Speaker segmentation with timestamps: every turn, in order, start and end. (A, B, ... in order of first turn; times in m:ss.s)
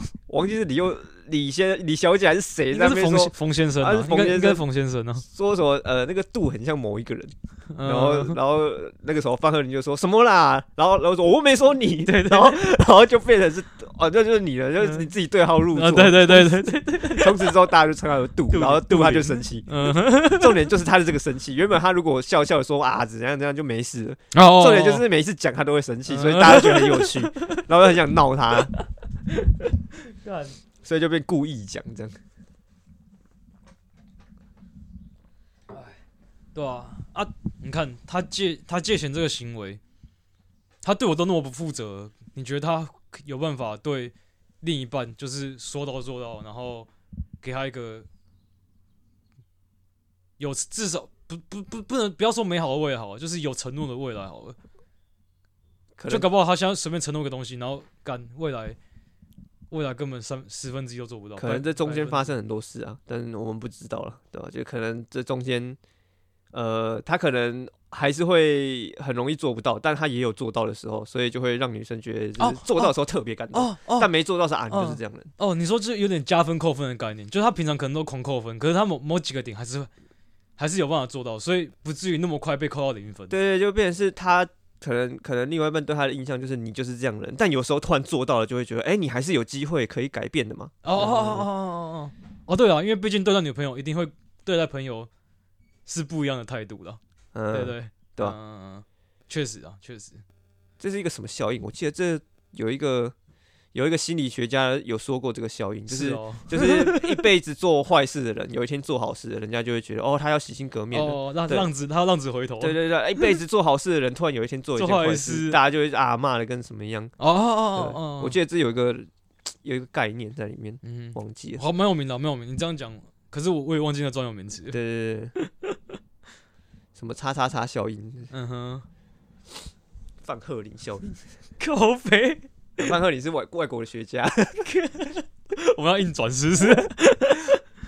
0:00.3-0:04.6 A
0:02.7-0:05.2 B
0:05.2-0:19.7 A
0:07.7-0:08.4 B
0:12.0-0:12.7 B
0:15.7-0:17.5 B
0:18.5-0:20.7 B
0:20.2-0:28.7 A
0:24.3-0:25.0 B
0:26.1-0:27.6 B
0:28.7-0:29.5 B
0:30.0-0:30.6 B
0:30.8-0:32.2 A
0:35.7-0:36.0 B
0:36.5-0:39.8 B
0:40.8-0:46.9 B
0:47.4-0:48.0 B
0:50.4-0:54.6 B
0:56.0-0:56.3 A
0:56.1-0:58.8 B
0:59.7-1:02.3 B
1:01.4-1:05.8 A
1:06.5-1:15.3 A
1:12.4-1:12.9 B
1:13.5-1:14.1 B
1:14.7-1:19.9 B
1:20.6-1:23.3 B
1:23.3-1:31.5 A
1:30.8-1:35.1 B
1:35.8-1:37.0 B
1:37.3-1:38.4 A
1:37.5-1:40.2 B
1:40.8-1:43.1 A
1:43.7-1:51.7 A
1:45.9-1:47.3 B
1:50.9-1:53.3 B
1:52.6-1:57.1 A
1:54.8-1:55.6 B
1:57.2-1:58.4 B
1:57.7-1:59.1 A
1:59.6-2:01.6 A
2:00.8-2:04.8 B
2:04.7-2:05.3 A
2:05.4-2:05.8 B
2:06.9-2:08.3 A
2:08.3-2:08.8 B
2:10.2-2:11.3 A
2:11.6-2:12.8 B
2:12.8-2:14.7 A
2:14.6-2:17.6 B